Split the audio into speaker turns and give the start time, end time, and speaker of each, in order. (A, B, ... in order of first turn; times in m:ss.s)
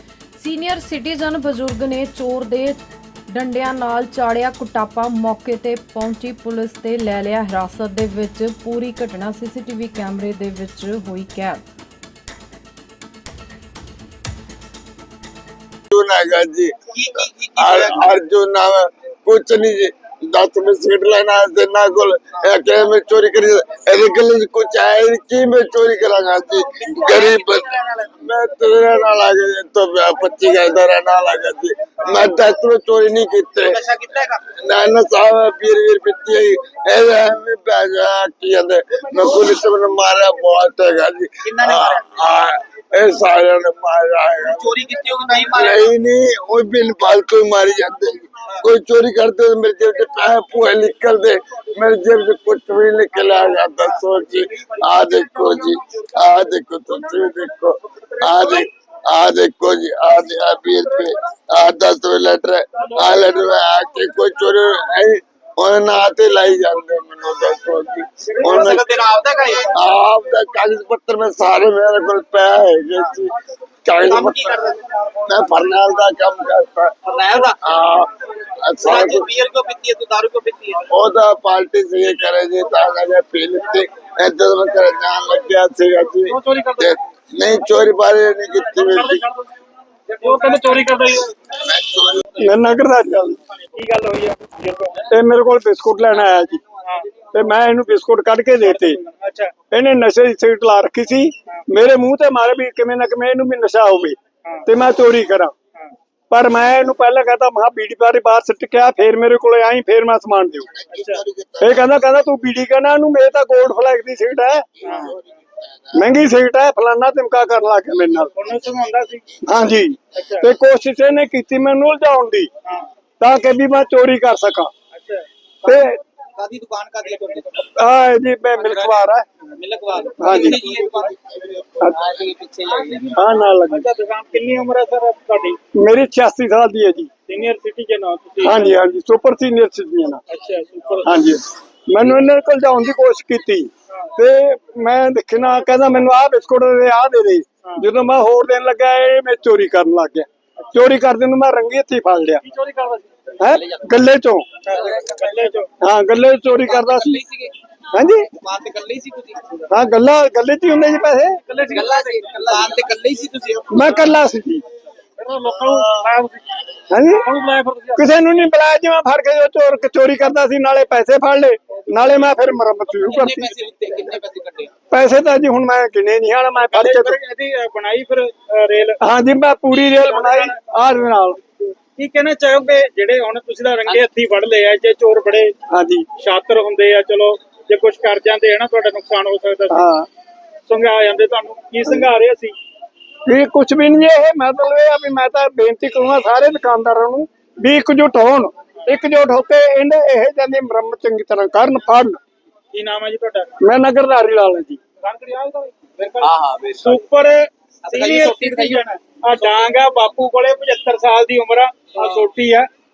0:00.4-0:11.6 A
0:15.9-0:16.8 B
0:16.9-0:18.2 C
0:17.5-0:33.8 B
0:26.8-0:28.1 C
0:33.6-0:34.4 C
0:34.5-0:44.8 B
0:41.4-0:42.2 C
0:44.4-0:45.9 C
0:45.4-1:08.8 B
1:08.4-1:08.7 D
1:08.4-1:09.8 C
1:09.7-1:13.3 B
1:13.8-1:14.6 B
1:14.0-1:14.8 C
1:15.2-1:17.0 B
1:17.1-1:17.6 C
1:17.6-1:19.3 B
1:18.8-1:20.9 C
1:20.9-1:29.2 B
1:26.3-1:27.0 D
1:28.9-1:29.5 D
1:30.1-1:31.3 D
1:31.5-1:32.3 B
1:32.4-1:33.4 E
1:33.7-1:35.1 D
1:35.1-1:36.6 E
1:36.8-1:37.1 D
1:37.3-1:39.0 E
1:38.7-1:39.5 D
1:39.7-1:45.6 E
1:46.3-1:50.7 E
1:50.7-1:52.0 B
1:50.9-1:51.2 D
1:51.6-1:55.0 E
1:54.8-1:56.0 B
1:54.8-1:55.2 D
1:55.9-1:58.3 E
1:58.4-1:59.3 D
1:59.4-2:02.5 E
2:00.2-2:00.5 D
2:03.2-2:04.7 E
2:04.9-2:05.3 D
2:05.6-2:06.0 E
2:06.4-2:07.7 C
2:07.1-2:07.4 D
2:07.7-2:09.2 E
2:08.6-2:13.1 C
2:10.2-2:10.7 E
2:10.2-2:10.7 D
2:12.7-2:15.6 D
2:13.1-2:13.9 E
2:15.7-2:17.1 E
2:17.3-2:18.8 D
2:18.4-2:20.2 E
2:20.3-2:21.3 D
2:21.0-2:32.4 E
2:32.4-2:33.3 D
2:33.4-2:34.5 E
2:34.6-2:35.7 D
2:34.7-2:35.5 C
2:35.8-2:37.2 E
2:36.5-2:37.5 C
2:37.9-2:38.3 E
2:38.3-2:39.7 C
2:39.7-2:41.4 E
2:41.5-2:42.7 D
2:41.7-2:43.8 C
2:43.7-2:44.6 E
2:45.2-2:46.5 D
2:45.7-2:46.1 C
2:46.9-2:47.3 E
2:47.2-2:48.1 D
2:48.0-2:53.5 E
2:53.0-2:54.7 C
2:54.9-2:57.2 E
2:56.7-2:59.0 D
2:59.0-3:01.4 E
3:00.1-3:00.5 D
3:02.0-3:05.5 D
3:05.7-3:06.1 E
3:06.2-3:09.9 D
3:09.7-3:10.1 E
3:10.7-3:12.6 D
3:13.3-3:22.2 E
3:22.7-3:23.5 D
3:23.6-3:24.8 E
3:25.0-3:32.7 D
3:26.2-3:27.0 C
3:27.8-3:28.8 C
3:32.0-3:32.2 C